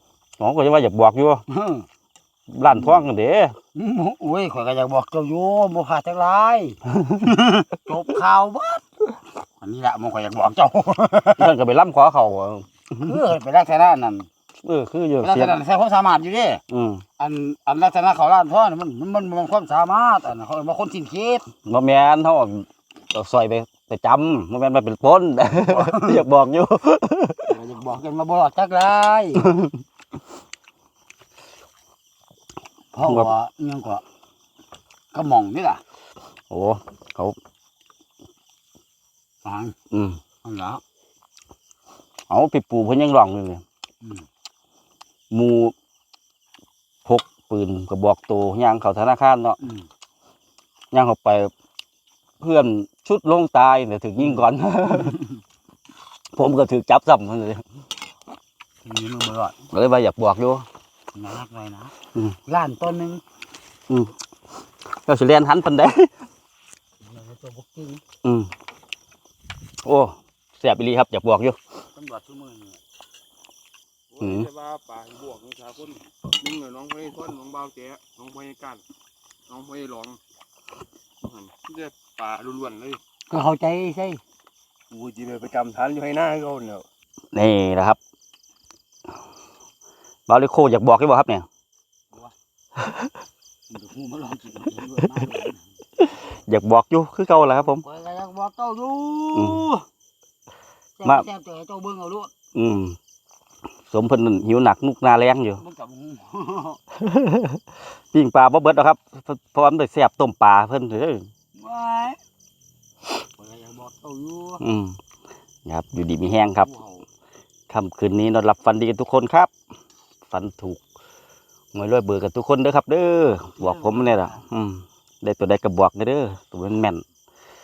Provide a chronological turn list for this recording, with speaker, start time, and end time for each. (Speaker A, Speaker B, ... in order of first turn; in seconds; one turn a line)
Speaker A: 0.4-1.4
Speaker B: 1.5-1.9
Speaker A: 2.5-3.6
Speaker B: 2.7-3.0
Speaker B: 3.8-8.8
Speaker B: 9.6-11.6
Speaker A: 11.4-12.7
Speaker B: 12.9-14.3
Speaker A: 14.6-15.6
Speaker B: 15.2-16.6
Speaker A: 16.7-17.1
Speaker B: 17.2-21.5
Speaker A: 21.6-27.5
Speaker B: 25.5-26.2
Speaker B: 27.5-29.5
Speaker A: 29.4-29.7
Speaker B: 32.9-34.0
Speaker B: 35.1-35.8
Speaker A: 36.5-37.4
Speaker B: 39.4-39.8
Speaker A: 39.9-40.2
Speaker B: 40.4-40.8
Speaker A: 42.3-43.6
Speaker B: 44.0-44.3
Speaker A: 45.3-45.8
Speaker A: 47.0-49.6
Speaker B: 49.6-49.9
Speaker A: 50.9-51.5
Speaker A: 52.4-55.2
Speaker B: 55.0-55.3
Speaker A: 56.3-57.6
Speaker B: 58.8-59.6
Speaker A: 59.7-60.7
Speaker B: 61.1-61.9
Speaker B: 62.5-63.2
Speaker A: 63.9-64.2
Speaker A: 64.9-66.1
Speaker B: 67.0-68.0
Speaker A: 68.2-68.5
Speaker A: 69.8-71.6
Speaker B: 72.0-72.8
Speaker C: 74.1-78.8
Speaker A: 74.2-74.5
Speaker C: 79.5-80.2
Speaker C: 81.2-83.0
Speaker B: 83.3-84.2
Speaker C: 84.9-86.9
Speaker A: 87.3-88.0
Speaker A: 90.3-91.5
Speaker B: 93.7-95.6
Speaker A: 96.0-97.8
Speaker B: 97.6-99.8
Speaker A: 99.3-99.7
Speaker B: 101.0-102.3
Speaker A: 102.5-103.0
Speaker A: 103.9-105.6
Speaker B: 105.6-106.8
Speaker A: 107.0-111.3
Speaker B: 111.5-112.2
Speaker B: 113.4-114.6
Speaker A: 114.6-115.0
Speaker A: 115.7-116.7
Speaker B: 116.6-117.0
Speaker A: 117.7-119.5
Speaker A: 120.3-120.8
Speaker A: 121.7-127.0
Speaker B: 123.6-124.4